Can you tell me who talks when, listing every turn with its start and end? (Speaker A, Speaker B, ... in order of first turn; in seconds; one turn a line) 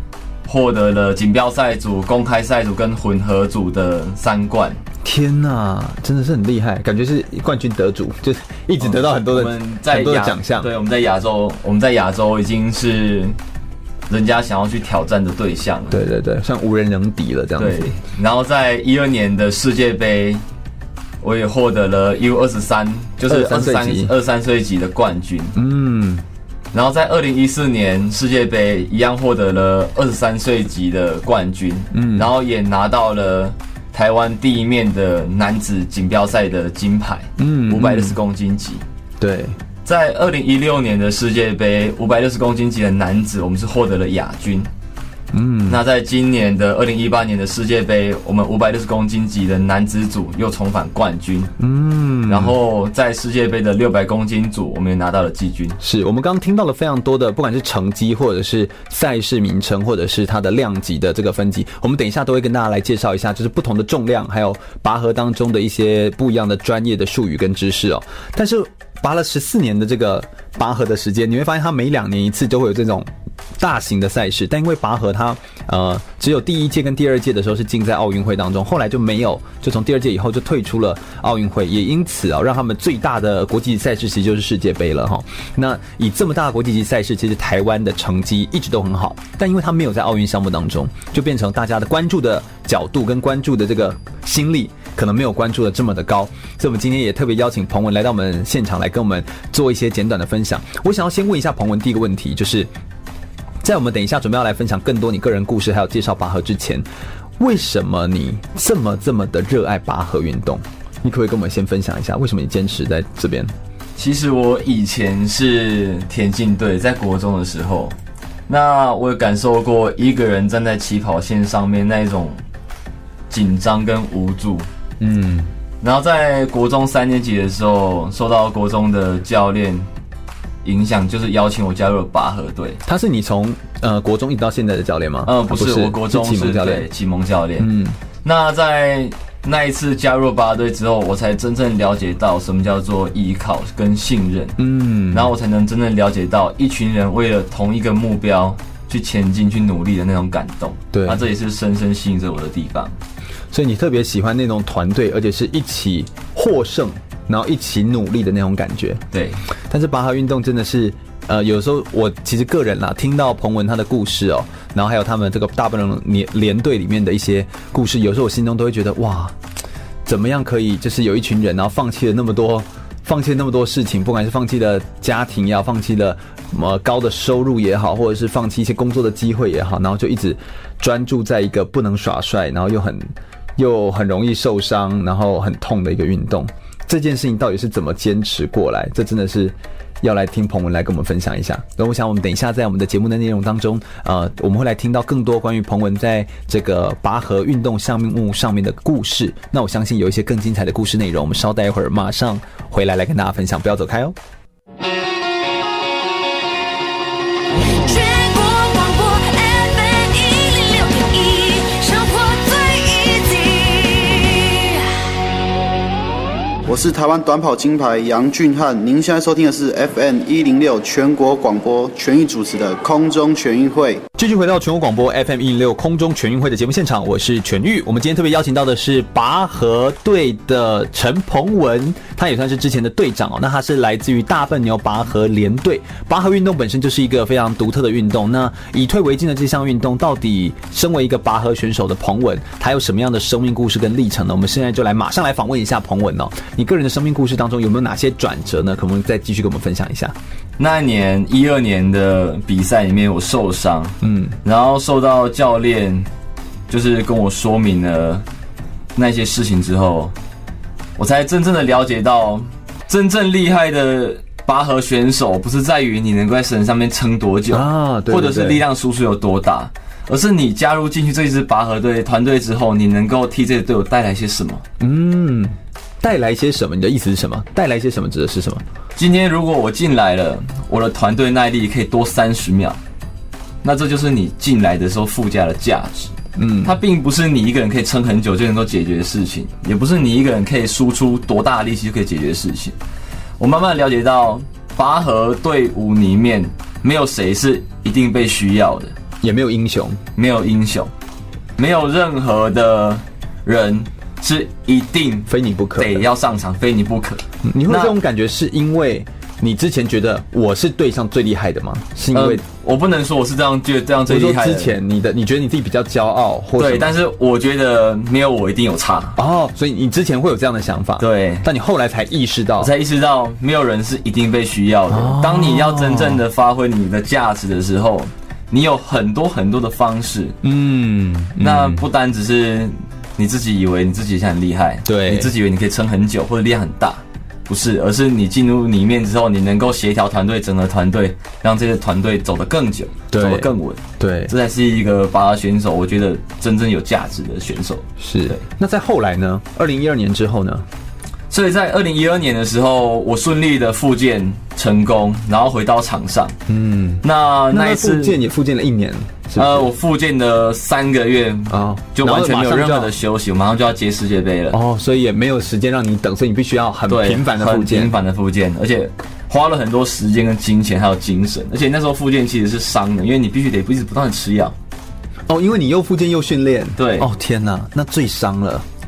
Speaker A: 0.5-4.8
Speaker B: 5.0-10.7
Speaker A: 8.8-13.3
Speaker A: 14.1-16.0
Speaker B: 15.9-17.9
Speaker A: 17.6-20.4
Speaker A: 21.2-25.6
Speaker B: 23.3-24.1
Speaker B: 25.5-26.2
Speaker A: 26.7-38.8
Speaker B: 31.9-32.3
Speaker B: 37.4-38.2
Speaker B: 39.2-39.6
Speaker A: 39.8-44.7
Speaker B: 45.3-45.8
Speaker A: 45.7-51.5
Speaker B: 51.6-52.5
Speaker A: 52.3-55.8
Speaker B: 55.8-102.7
Speaker B: 103.6-106.8
Speaker B: 107.4-113.5
Speaker A: 114.0-118.0
Speaker A: 118.5-122.4
Speaker A: 123.3-124.7
Speaker B: 125.0-125.5
Speaker A: 125.8-129.9
Speaker A: 130.6-132.8
Speaker B: 132.8-136.9
Speaker A: 135.2-137.7
Speaker B: 137.6-138.0
Speaker A: 138.2-144.6
Speaker B: 144.6-145.3
Speaker A: 145.1-152.9
Speaker B: 150.9-151.2
Speaker B: 153.5-159.0
Speaker A: 159.1-159.4
Speaker B: 159.7-169.3
Speaker B: 170.0-204.2
Speaker C: 207.7-214.9
Speaker D: 216.7-224.0
Speaker B: 224.2-250.1
Speaker A: 250.6-256.1
Speaker B: 254.0-254.3
Speaker A: 256.7-258.2
Speaker A: 258.9-260.1
Speaker A: 261.0-274.6
Speaker B: 267.5-268.6
Speaker B: 274.8-278.6
Speaker A: 278.9-282.8
Speaker A: 283.6-292.8
Speaker B: 286.4-286.8
Speaker A: 293.4-298.9
Speaker B: 299.2-300.0
Speaker A: 300.1-300.9
Speaker A: 301.6-307.9
Speaker B: 305.3-306.0
Speaker B: 307.4-312.4
Speaker A: 312.1-314.7
Speaker B: 314.1-316.9
Speaker A: 316.6-319.2
Speaker B: 319.1-322.7
Speaker A: 321.0-321.5
Speaker A: 322.6-330.4
Speaker B: 324.9-326.2
Speaker B: 330.4-331.9
Speaker A: 331.4-348.4
Speaker B: 334.9-335.3
Speaker B: 343.1-344.3
Speaker B: 348.0-350.6
Speaker A: 351.3-356.4
Speaker B: 356.5-359.7
Speaker A: 357.0-358.2
Speaker A: 359.3-364.6
Speaker B: 361.5-362.9
Speaker B: 364.5-367.9
Speaker A: 366.9-374.5
Speaker B: 375.3-378.6
Speaker A: 376.8-377.1